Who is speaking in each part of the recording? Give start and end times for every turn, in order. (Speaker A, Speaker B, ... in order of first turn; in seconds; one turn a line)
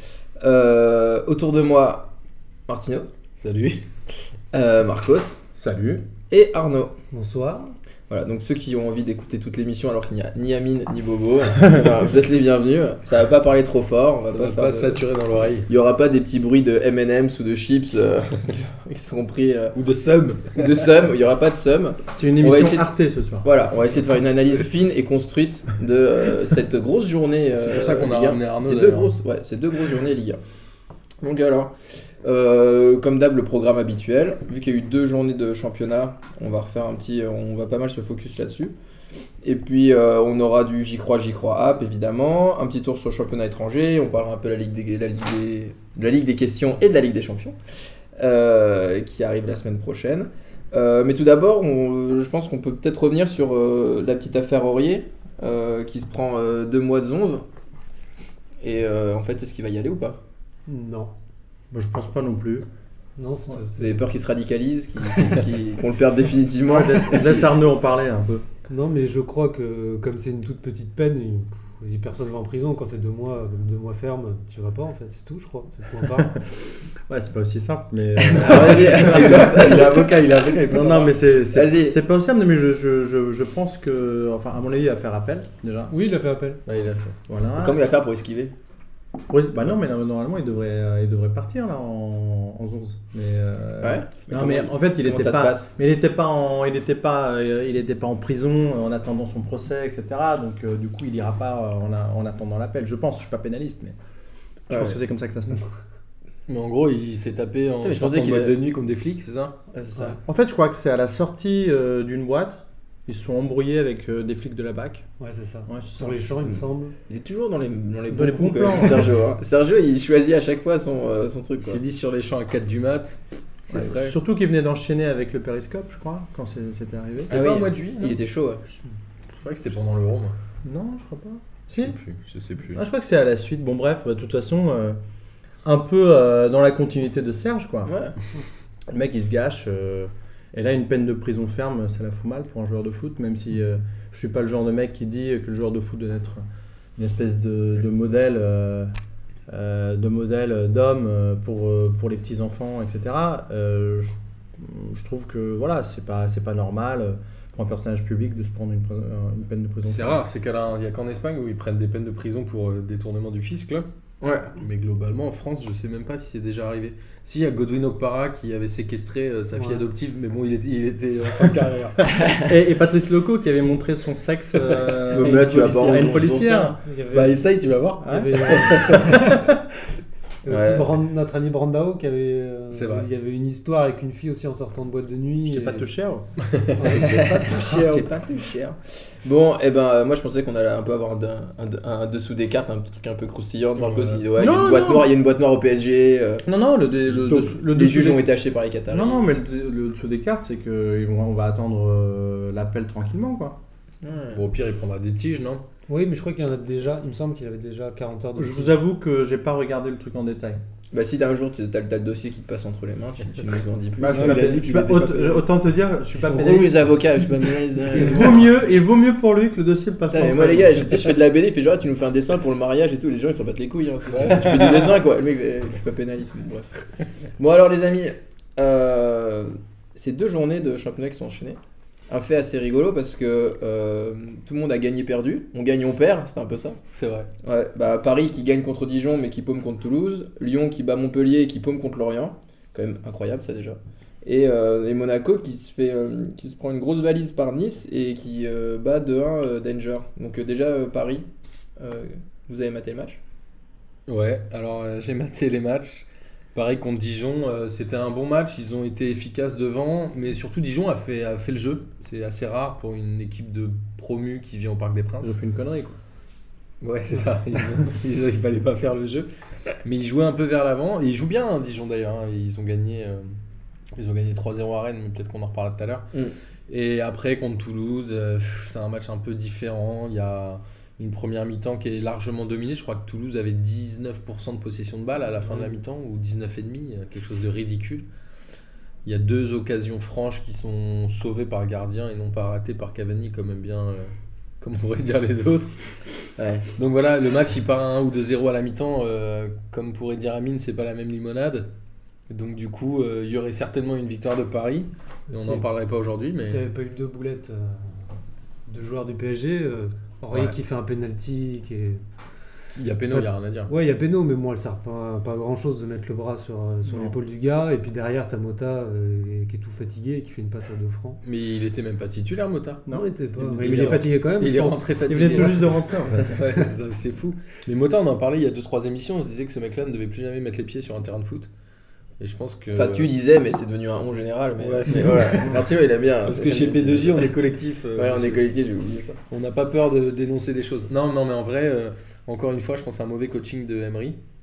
Speaker A: 0.4-2.1
Speaker A: 2.7-3.1
Speaker B: 3.4-3.8
Speaker A: 4.5-5.4
Speaker C: 5.5-6.0
Speaker A: 6.3-6.9
Speaker D: 7.1-7.7
Speaker A: 8.1-15.0
Speaker B: 14.2-15.7
Speaker A: 15.7-19.8
Speaker B: 19.7-20.9
Speaker A: 20.5-22.9
Speaker C: 22.1-23.5
Speaker A: 23.4-30.4
Speaker B: 27.5-29.2
Speaker A: 31.2-38.7
Speaker A: 39.4-47.6
Speaker A: 48.2-57.5
Speaker A: 58.6-60.2
Speaker D: 60.7-61.1
Speaker C: 61.7-62.7
Speaker D: 63.2-64.1
Speaker A: 63.8-67.5
Speaker C: 66.7-68.5
Speaker D: 68.7-76.4
Speaker C: 76.0-76.4
Speaker C: 77.1-85.9
Speaker A: 78.3-82.0
Speaker D: 85.9-86.6
Speaker B: 86.7-87.2
Speaker C: 87.3-87.8
Speaker A: 87.6-88.5
Speaker C: 89.3-104.0
Speaker A: 93.8-95.7
Speaker A: 104.7-105.0
Speaker C: 104.7-105.7
Speaker B: 106.5-109.6
Speaker A: 107.8-108.6
Speaker A: 109.7-110.2
Speaker C: 110.3-115.1
Speaker D: 115.2-117.0
Speaker C: 115.7-116.5
Speaker A: 117.1-121.8
Speaker C: 118.1-119.1
Speaker B: 121.6-124.2
Speaker C: 123.7-127.7
Speaker A: 127.3-128.6
Speaker B: 127.3-128.1
Speaker B: 129.4-130.3
Speaker C: 130.6-132.0
Speaker B: 131.8-132.8
Speaker C: 132.7-135.0
Speaker C: 135.6-137.9
Speaker A: 137.9-138.2
Speaker C: 138.9-146.4
Speaker C: 147.0-148.9
Speaker C: 149.5-160.2
Speaker B: 159.8-163.9
Speaker A: 164.2-164.5
Speaker B: 164.6-172.1
Speaker D: 169.6-169.8
Speaker C: 172.4-176.8
Speaker B: 175.0-176.5
Speaker A: 175.1-176.7
Speaker D: 176.5-179.4
Speaker B: 177.1-179.2
Speaker C: 178.0-179.6
Speaker D: 180.4-185.9
Speaker A: 180.5-180.9
Speaker B: 182.7-183.1
Speaker C: 185.5-186.3
Speaker B: 186.5-188.1
Speaker D: 186.8-187.6
Speaker A: 186.9-196.5
Speaker B: 193.8-194.2
Speaker C: 194.4-195.1
Speaker C: 196.5-198.3
Speaker A: 197.1-199.3
Speaker C: 198.9-203.6
Speaker A: 204.0-204.4
Speaker B: 204.3-205.6
Speaker D: 205.9-208.8
Speaker C: 208.4-210.6
Speaker A: 210.9-215.5
Speaker C: 214.0-216.9
Speaker B: 214.0-215.2
Speaker A: 216.1-218.5
Speaker C: 217.9-221.1
Speaker A: 220.1-226.8
Speaker B: 224.1-224.7
Speaker C: 224.6-224.8
Speaker A: 227.4-231.6
Speaker A: 232.1-236.8
Speaker B: 236.9-237.3
Speaker A: 237.4-253.2
Speaker B: 254.1-265.4
Speaker C: 265.2-266.0
Speaker B: 266.8-269.3
Speaker B: 269.8-273.3
Speaker B: 274.0-276.1
Speaker B: 276.7-288.1
Speaker B: 289.1-295.7
Speaker A: 296.4-296.7
Speaker B: 296.8-301.7
Speaker B: 302.3-306.6
Speaker D: 305.3-305.6
Speaker D: 306.4-308.1
Speaker D: 308.7-312.0
Speaker B: 312.7-313.7
Speaker D: 313.1-321.2
Speaker C: 316.9-317.2
Speaker B: 321.2-322.8
Speaker C: 322.9-324.1
Speaker D: 322.9-325.6
Speaker B: 323.6-331.5
Speaker C: 325.1-326.4
Speaker B: 332.2-333.1
Speaker A: 332.8-337.3
Speaker B: 334.6-335.7
Speaker B: 336.2-338.4
Speaker A: 337.9-339.2
Speaker B: 339.3-344.2